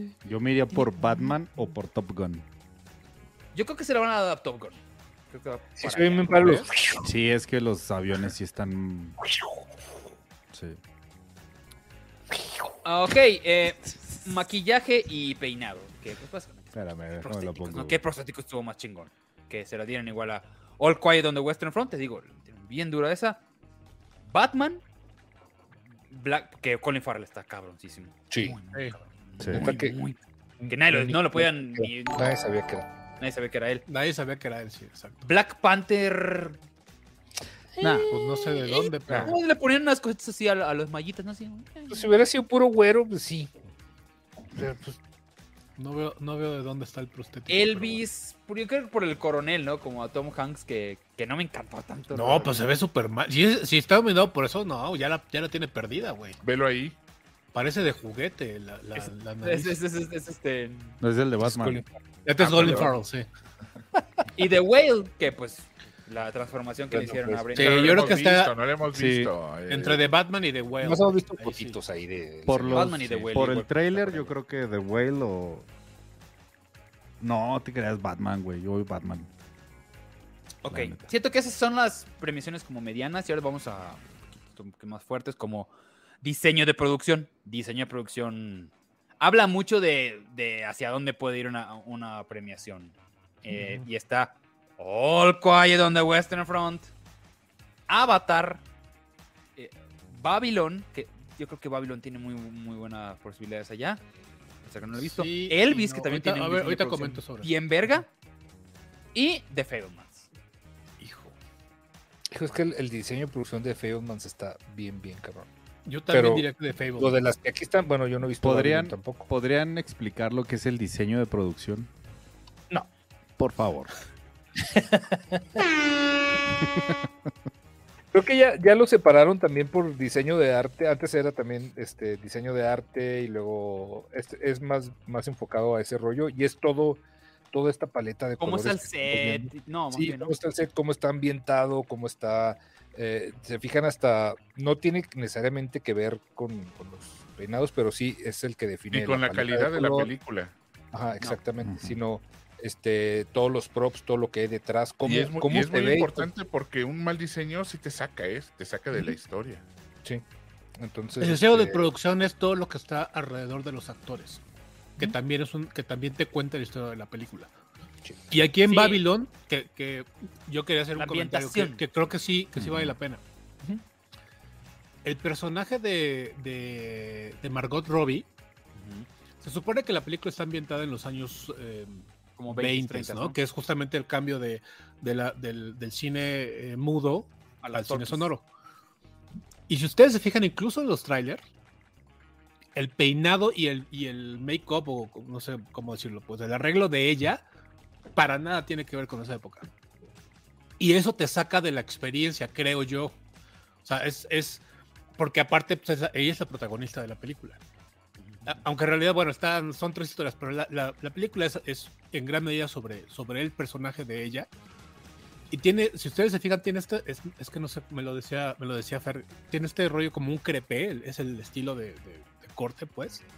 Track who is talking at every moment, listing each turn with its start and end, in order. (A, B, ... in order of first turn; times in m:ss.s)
0:00.2-0:02.4 A
0:03.5-0:06.7 B
0:05.8-0:07.1 C
0:07.0-0:09.2 A
0:10.5-0:10.8 A
0:12.8-0:23.4 B
0:13.9-0:14.2 A
0:16.7-0:18.0 A
0:24.2-0:24.8 B
0:26.1-0:32.4 B
0:28.3-0:28.6 C
0:29.4-0:29.7 A
0:29.5-0:30.0 C
0:30.6-0:32.9 C
0:33.2-0:33.8 B
0:33.9-0:35.3 D
0:35.2-0:36.6 B
0:37.8-0:42.1 B
0:37.8-0:38.1 A
0:38.1-0:39.4 D
0:41.9-0:43.5 C
0:44.5-0:45.0 C
0:45.8-0:48.0 D
0:47.5-0:52.6 B
0:52.1-0:56.4 D
0:56.4-0:57.0 E
0:57.5-0:59.8 D
0:59.0-1:01.0 B
1:01.0-1:01.8 A
1:01.4-1:02.0 C
1:02.2-1:03.3 D
1:02.4-1:02.8 E
1:02.6-1:02.9 C
1:04.4-1:08.0 B
1:06.9-1:07.6 C
1:07.6-1:08.5 D
1:07.6-1:10.1 E
1:08.9-1:09.3 A
1:09.7-1:11.8 D
1:10.8-1:13.0 C
1:12.5-1:15.7 A
1:12.7-1:14.3 B
1:17.2-1:19.3 A
1:20.6-1:25.7 B
1:20.7-1:21.1 A
1:26.2-1:36.9 B
1:37.9-1:38.6 B
1:39.6-1:44.0 B
1:44.6-1:48.1 B
1:45.0-1:48.0 D
1:49.1-1:50.3 B
1:51.0-1:51.3 D
1:52.3-1:55.5 C
1:55.8-1:57.2 D
1:56.1-1:59.3 C
1:58.4-2:01.9 A
2:03.4-2:03.9 A
2:04.7-2:05.4 C
2:06.7-2:07.0 A
2:08.1-2:30.1 C
2:18.4-2:20.4 B
2:28.9-2:30.5 E
2:30.9-2:36.3 C
2:31.6-2:32.0 A
2:35.0-2:39.6 E
2:40.8-2:41.9 C
2:41.2-2:44.4 D
2:45.0-2:47.5 D
2:48.3-2:53.2 D
2:48.7-2:49.0 B
2:51.0-2:51.8 B
2:52.6-2:53.0 A
2:55.0-2:58.3 D
2:58.8-2:59.1 B
2:59.4-3:08.4 D
3:02.4-3:03.4 B
3:07.6-3:08.3 B
3:09.7-3:11.4 D
3:12.8-3:17.4 D
3:18.2-3:19.7 D
3:20.8-3:23.2 D
3:23.8-3:24.6 D
3:25.2-3:27.6 D
3:28.2-3:28.6 B
3:28.4-3:34.5 D
3:35.5-3:43.2 D